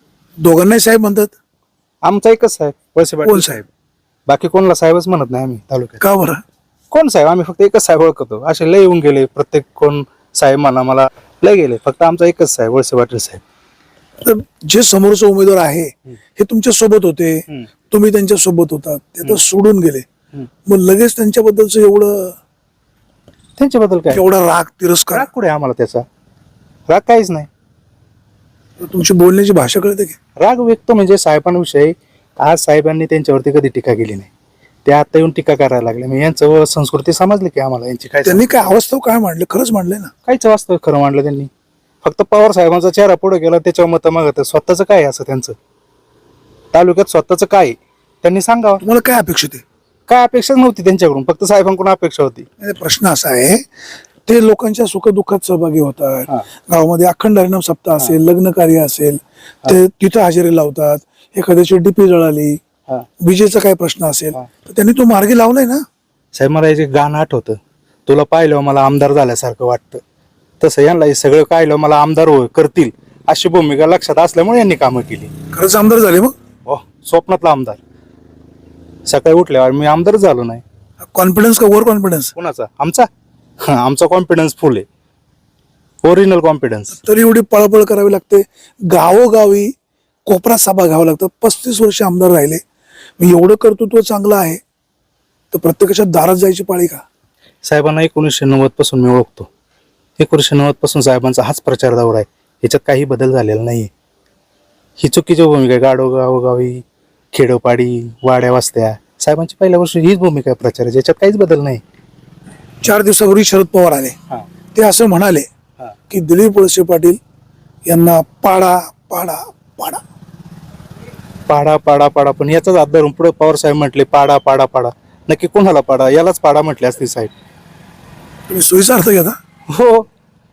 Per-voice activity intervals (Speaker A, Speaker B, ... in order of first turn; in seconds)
Speaker A: 0.4-1.3, 3.2-3.6, 6.0-6.4, 14.2-20.0, 20.7-22.4, 24.1-25.3, 28.8-30.1, 38.2-40.1, 48.8-49.6, 52.6-53.6, 54.3-62.6, 63.2-65.8, 75.5-76.3, 81.0-82.3, 86.9-89.7, 90.2-92.6, 93.2-94.6, 95.5-97.0, 112.8-114.1, 114.7-115.5, 116.1-117.2, 117.9-120.0, 128.5-129.3
Speaker B: 2.0-3.6, 4.3-6.0, 6.9-13.4, 23.6-24.2, 25.1-26.0, 26.9-27.5, 30.4-34.3, 34.8-38.7, 40.3-41.5, 42.0-45.5, 46.7-48.8, 50.1-52.5, 66.3-70.0, 70.6-75.3, 76.7-77.8, 79.1-80.6, 82.3-83.1, 83.6-84.8, 86.0-87.0, 97.6-99.5, 100.2-103.9, 105.0-106.8, 107.3-111.8, 121.5-127.3, 129.7-130.0